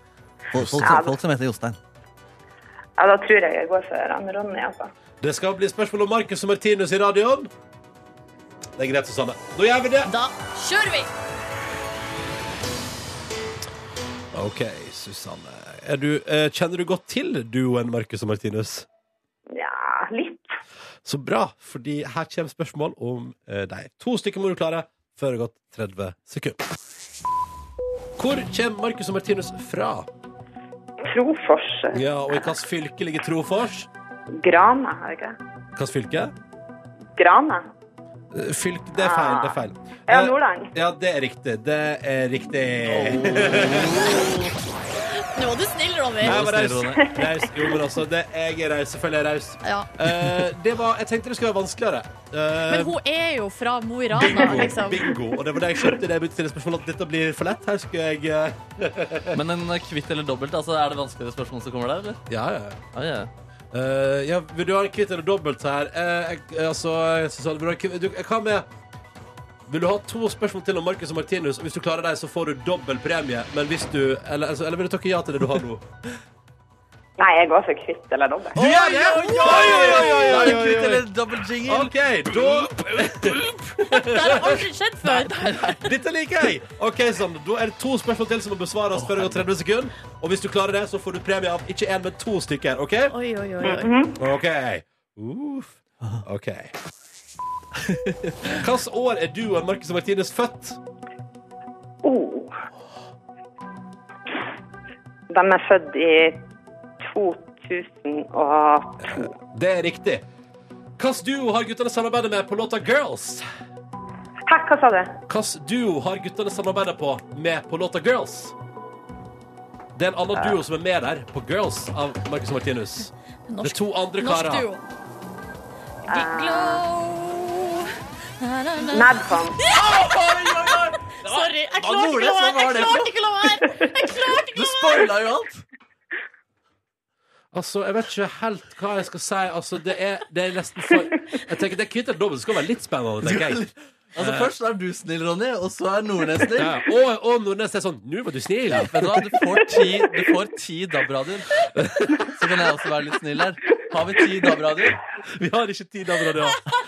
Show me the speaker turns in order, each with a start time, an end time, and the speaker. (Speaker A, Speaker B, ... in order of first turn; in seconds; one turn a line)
Speaker A: 0.5-1.8
Speaker B: 0.6-0.8
Speaker C: 0.8-1.2
Speaker C: 3.0-4.9
Speaker B: 5.2-7.5
Speaker B: 8.8-10.1
Speaker D: 10.0-11.1
Speaker B: 14.3-18.9
Speaker C: 19.5-20.5
Speaker B: 21.0-26.6
Speaker B: 28.2-30.1
Speaker C: 31.0-32.5
Speaker B: 31.9-33.9
Speaker C: 34.4-35.4
Speaker B: 35.8-36.3
Speaker C: 37.2-37.7
Speaker B: 38.3-44.1
Speaker C: 39.0-40.7
Speaker A: 42.9-44.5
Speaker D: 45.1-46.4
Speaker A: 46.2-47.0
Speaker B: 46.2-53.0
Speaker C: 47.0-47.9
Speaker D: 49.6-49.9
Speaker D: 52.7-55.1
Speaker B: 54.1-59.4
Speaker C: 54.6-55.1
Speaker A: 59.3-62.2
Speaker B: 62.3-62.8
Speaker A: 62.9-63.3
Speaker B: 63.7-68.7
Speaker B: 69.7-75.8
Speaker C: 77.2-78.6
Speaker B: 78.5-81.1
Speaker A: 78.5-83.6
Speaker D: 78.7-80.6
Speaker B: 81.6-84.6
Speaker D: 83.8-85.7
Speaker A: 85.0-85.9
Speaker B: 85.8-93.1
Speaker A: 88.9-89.4
Speaker D: 93.1-93.9
Speaker C: 93.6-94.2
Speaker B: 94.2-96.7
Speaker A: 97.8-98.5
Speaker B: 98.4-100.8
Speaker C: 102.0-102.6
Speaker C: 105.3-106.4
Speaker C: 107.0-109.3
Speaker B: 109.0-110.2
Speaker B: 111.0-113.4
Speaker C: 114.5-115.2
Speaker B: 115.3-118.5
Speaker B: 119.9-123.1
Speaker D: 123.5-124.8
Speaker B: 123.6-124.7
Speaker D: 126.1-130.1
Speaker C: 126.1-126.8
Speaker C: 128.9-129.6
Speaker A: 129.7-133.1
Speaker D: 131.1-135.1
Speaker A: 134.5-135.6
Speaker B: 137.5-143.7
Speaker A: 143.2-146.7
Speaker B: 144.2-144.5
Speaker B: 146.5-149.2
Speaker A: 148.7-151.7
Speaker B: 151.7-152.3
Speaker A: 152.2-155.0
Speaker B: 155.3-156.7